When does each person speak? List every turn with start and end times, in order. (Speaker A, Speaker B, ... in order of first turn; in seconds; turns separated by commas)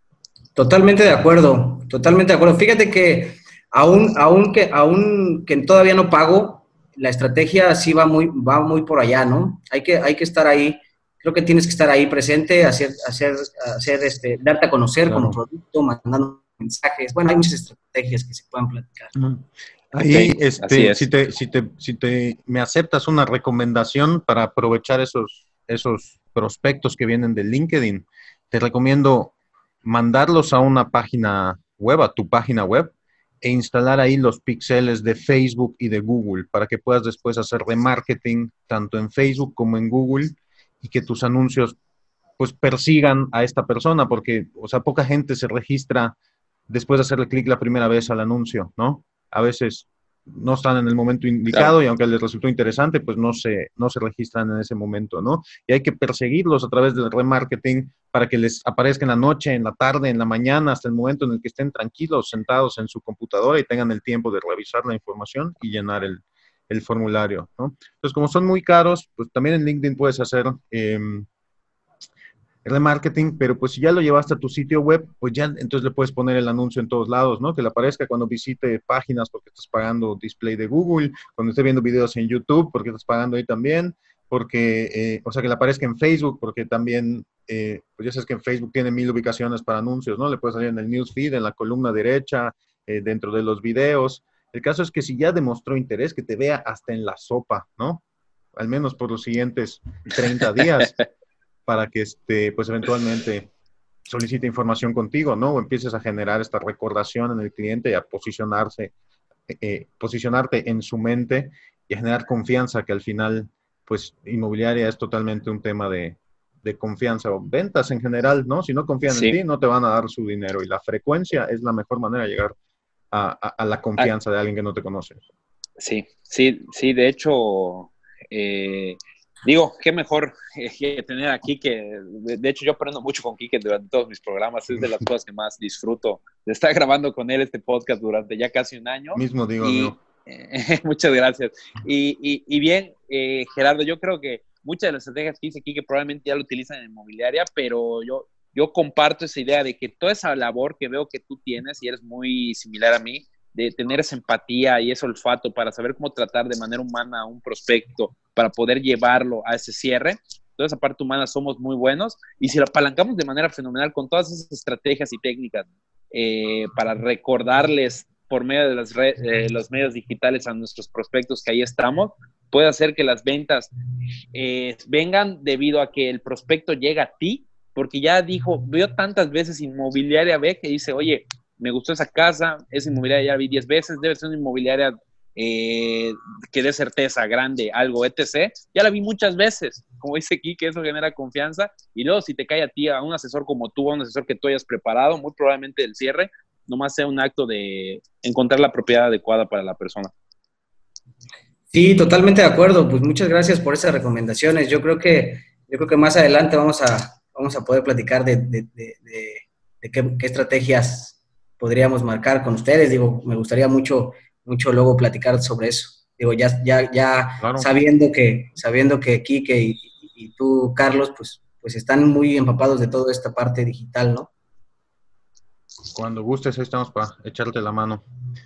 Speaker A: 0.6-19.1, Speaker B: 15.1-15.4, Speaker B: 19.1-29.3, Speaker C: 20.1-21.1, Speaker B: 29.8-41.8, Speaker B: 42.4-46.1, Speaker B: 46.7-71.3, Speaker B: 72.6-98.0, Speaker B: 98.5-100.9, Speaker B: 101.7-103.5, Speaker B: 104.1-108.9, Speaker B: 109.5-122.5, Speaker C: 119.1-119.4, Speaker B: 123.1-125.2, Speaker C: 125.8-173.7, Speaker B: 139.1-140.0, Speaker C: 174.3-200.1, Speaker A: 201.7-224.3, Speaker B: 217.4-217.7, Speaker B: 225.9-228.0